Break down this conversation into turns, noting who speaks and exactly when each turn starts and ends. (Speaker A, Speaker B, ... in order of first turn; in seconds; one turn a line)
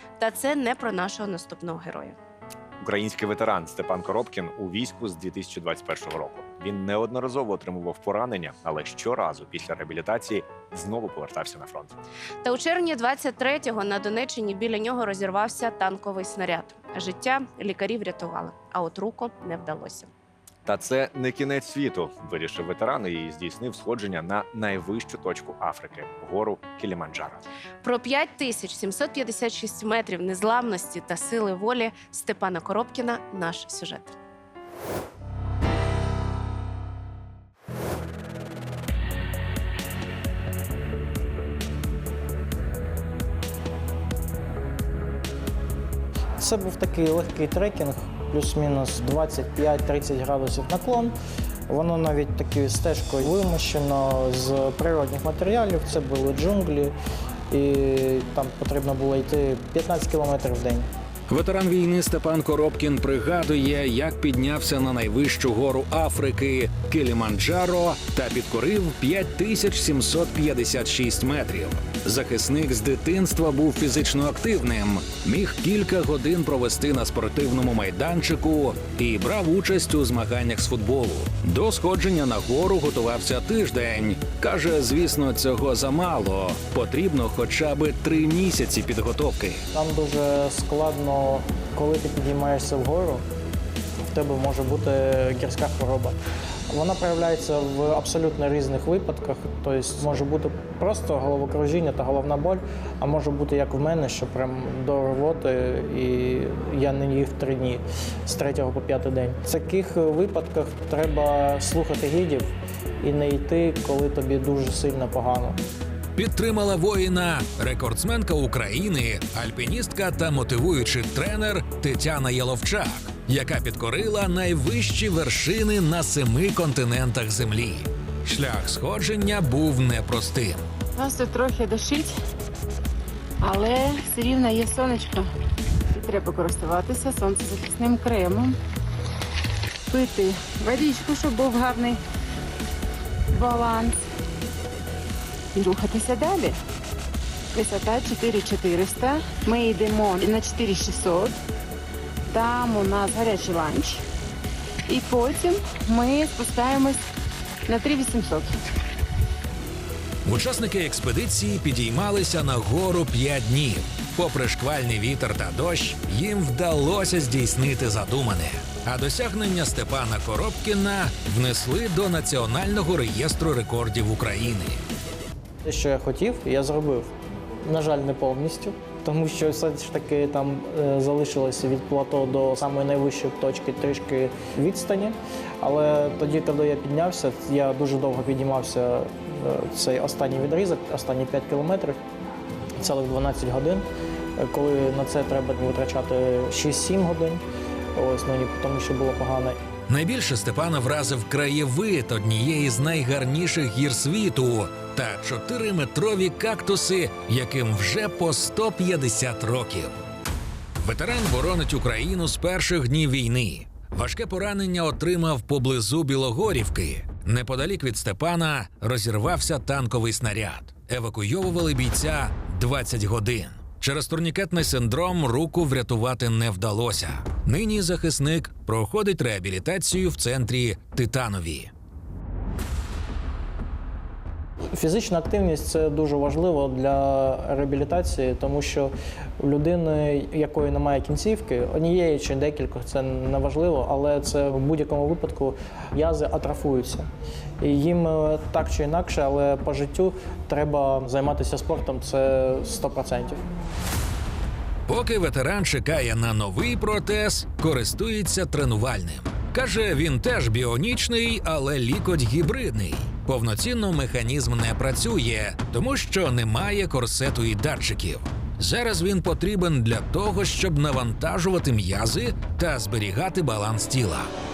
Speaker A: 0.2-2.2
Speaker B: 2.8-11.9
Speaker A: 12.4-20.1
Speaker B: 20.7-27.4
Speaker A: 27.8-34.2
Speaker C: 46.4-51.2
Speaker C: 51.7-56.9
Speaker C: 57.5-60.9
Speaker D: 61.3-89.6
Speaker C: 89.7-93.2
Speaker C: 94.1-96.2
Speaker C: 96.7-115.6
Speaker D: 116.2-130.6
Speaker E: 131.0-132.1
Speaker E: 133.4-135.3
Speaker E: 135.9-138.6
Speaker E: 139.9-142.0
Speaker E: 143.3-144.0
Speaker E: 145.5-146.6
Speaker E: 147.5-151.3
Speaker E: 152.3-154.0
Speaker E: 154.9-157.0
Speaker E: 157.7-158.5
Speaker D: 160.2-174.8
Speaker C: 175.6-177.1
Speaker C: 177.6-192.0
Speaker C: 192.8-193.8
Speaker C: 194.4-197.4
Speaker C: 197.9-199.6
Speaker D: 199.9-209.9
Speaker D: 210.8-231.7
Speaker C: 234.7-247.1
Speaker C: 247.6-253.4
Speaker D: 254.9-274.3